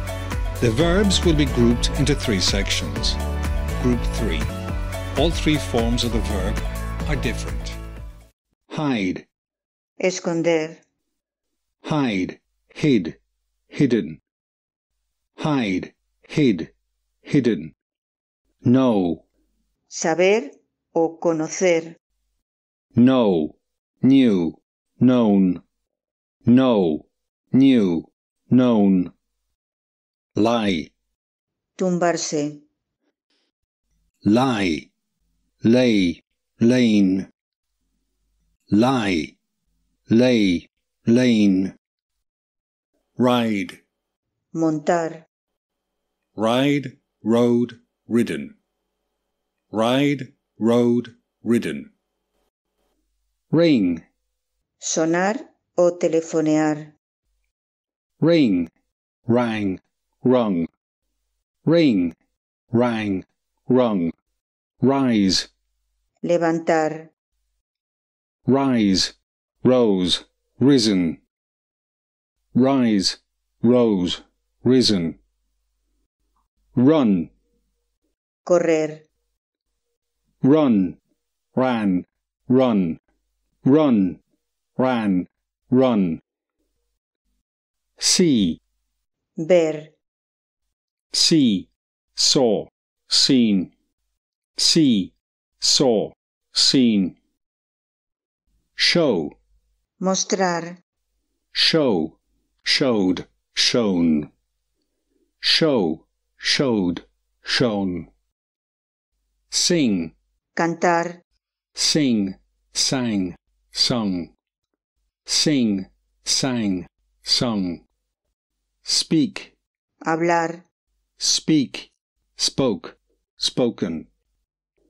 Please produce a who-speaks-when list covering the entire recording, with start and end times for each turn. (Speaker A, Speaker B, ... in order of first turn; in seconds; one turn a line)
Speaker A: 0.6-3.2
Speaker A: 3.8-4.5
Speaker A: 5.2-7.8
Speaker A: 8.7-9.3
Speaker B: 10.0-10.8
Speaker A: 11.8-13.2
Speaker A: 13.7-14.2
Speaker A: 15.4-16.7
Speaker A: 17.2-17.7
Speaker A: 18.6-19.2
Speaker B: 19.9-22.0
Speaker A: 22.9-25.6
Speaker A: 26.4-29.1
Speaker A: 30.4-30.9
Speaker B: 31.8-32.6
Speaker A: 34.2-34.9
Speaker A: 35.6-37.3
Speaker A: 38.7-39.4
Speaker A: 40.1-41.7
Speaker A: 43.2-43.8
Speaker B: 44.5-45.3
Speaker A: 46.4-48.5
Speaker A: 49.7-51.9
Speaker A: 53.5-54.0
Speaker B: 54.8-56.9
Speaker A: 58.2-58.7
Speaker A: 59.3-60.7
Speaker A: 61.6-62.1
Speaker A: 62.7-64.1
Speaker A: 64.8-65.5
Speaker B: 66.2-67.1
Speaker A: 68.5-71.2
Speaker A: 72.5-75.2
Speaker A: 76.8-77.3
Speaker B: 78.5-79.0
Speaker A: 80.4-81.0
Speaker A: 81.5-83.0
Speaker A: 83.6-84.2
Speaker A: 84.8-86.2
Speaker A: 88.0-88.6
Speaker B: 89.4-89.9
Speaker A: 91.1-93.7
Speaker A: 94.6-97.2
Speaker A: 98.8-99.3
Speaker B: 100.0-100.8
Speaker A: 101.5-104.3
Speaker A: 105.4-108.1
Speaker A: 109.5-110.1
Speaker B: 110.5-111.2
Speaker A: 111.7-114.3
Speaker A: 115.2-117.8
Speaker A: 118.8-119.5
Speaker B: 120.0-120.6
Speaker A: 121.2-124.1